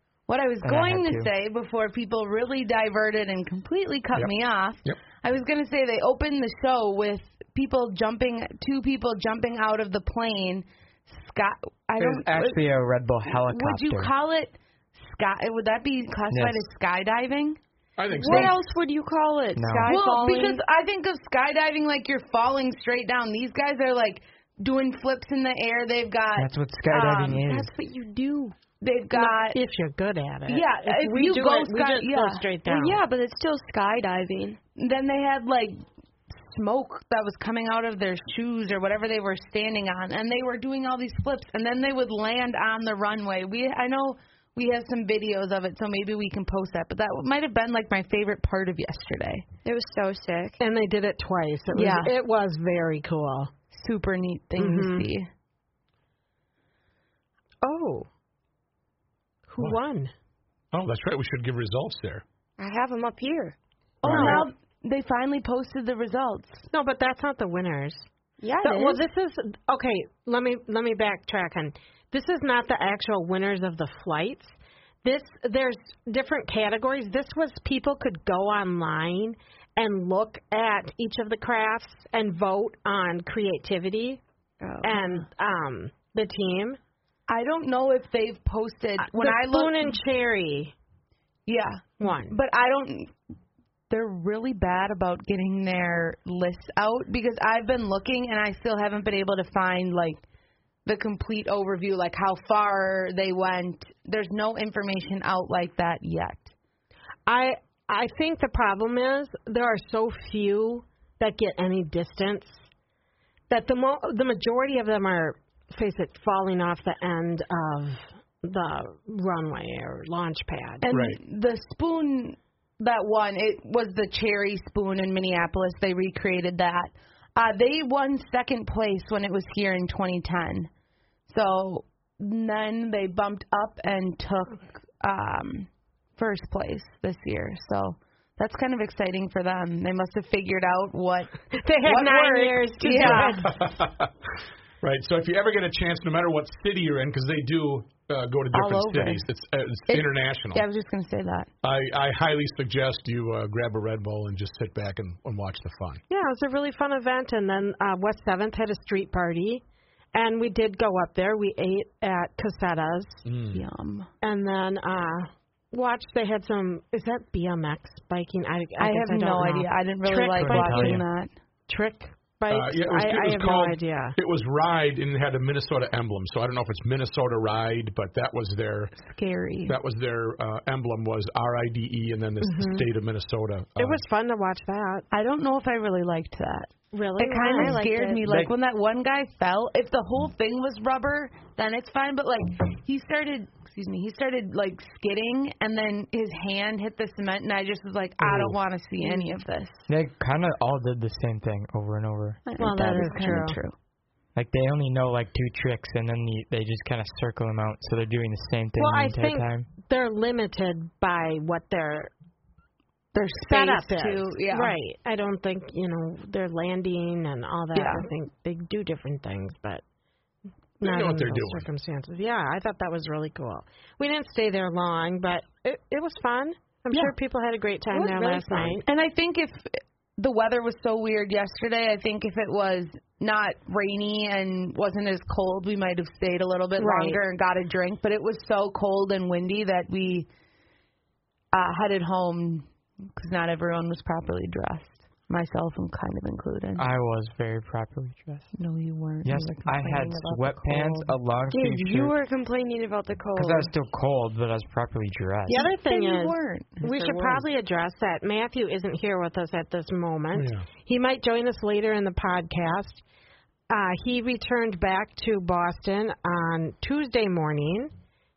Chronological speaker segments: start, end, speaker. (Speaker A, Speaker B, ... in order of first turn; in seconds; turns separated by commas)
Speaker A: 0.3-12.6, Speaker B: 0.6-1.3, Speaker C: 4.1-5.0, Speaker B: 12.0-14.1, Speaker A: 13.3-17.6, Speaker B: 16.3-16.6, Speaker C: 18.0-18.6, Speaker D: 18.1-20.6, Speaker B: 18.3-18.5, Speaker B: 19.5-19.9, Speaker A: 19.9-27.4, Speaker B: 26.4-27.7, Speaker D: 27.4-28.5, Speaker A: 28.8-29.6, Speaker E: 29.1-33.0, Speaker A: 30.5-32.5, Speaker D: 32.6-34.6, Speaker A: 34.8-49.5, Speaker D: 49.6-50.6, Speaker E: 50.6-53.5, Speaker A: 51.7-52.1, Speaker A: 53.7-55.3, Speaker E: 54.6-55.1, Speaker E: 57.6-58.1, Speaker E: 59.5-60.1, Speaker C: 60.7-62.2, Speaker D: 62.6-63.5, Speaker C: 64.0-64.4, Speaker A: 64.0-66.7, Speaker E: 64.0-64.5, Speaker E: 66.7-68.1, Speaker D: 68.4-69.0, Speaker E: 68.6-84.2, Speaker D: 84.6-85.0, Speaker E: 84.8-86.8, Speaker A: 87.3-90.0, Speaker E: 89.0-90.7, Speaker A: 91.5-93.1, Speaker E: 92.0-92.3, Speaker A: 93.9-100.2, Speaker A: 100.8-106.5, Speaker E: 107.3-112.7, Speaker E: 113.5-120.8, Speaker A: 120.8-130.7, Speaker C: 120.9-121.2, Speaker A: 131.3-143.6, Speaker E: 141.5-143.5, Speaker C: 143.0-144.1, Speaker C: 144.8-150.6, Speaker A: 148.5-149.2, Speaker A: 149.9-151.5, Speaker C: 151.6-156.0, Speaker E: 156.1-159.6, Speaker E: 160.1-163.2, Speaker C: 163.2-163.6, Speaker A: 163.5-164.1, Speaker E: 164.2-171.0, Speaker A: 168.8-171.3, Speaker B: 170.4-171.0, Speaker E: 171.7-174.2, Speaker C: 172.5-178.9, Speaker A: 178.9-179.8, Speaker C: 179.7-184.0, Speaker E: 182.4-182.8, Speaker E: 183.8-185.1, Speaker A: 185.1-199.9, Speaker E: 186.9-187.8, Speaker D: 187.4-188.2, Speaker B: 188.2-188.5, Speaker B: 198.2-198.6, Speaker B: 199.9-202.4, Speaker A: 202.4-203.7, Speaker E: 202.6-203.6, Speaker B: 204.3-209.7, Speaker E: 208.8-212.1, Speaker A: 213.1-214.8, Speaker E: 213.4-219.8, Speaker A: 217.7-218.1, Speaker E: 220.8-228.8, Speaker C: 220.8-221.7, Speaker A: 227.9-240.3, Speaker D: 228.2-228.6, Speaker E: 236.8-237.2, Speaker A: 241.5-246.8, Speaker B: 246.8-248.5, Speaker A: 248.5-251.1, Speaker B: 249.2-252.1, Speaker D: 251.5-253.7, Speaker B: 253.3-255.6, Speaker A: 255.5-257.4, Speaker E: 255.5-263.0, Speaker C: 260.3-260.7, Speaker E: 263.7-267.9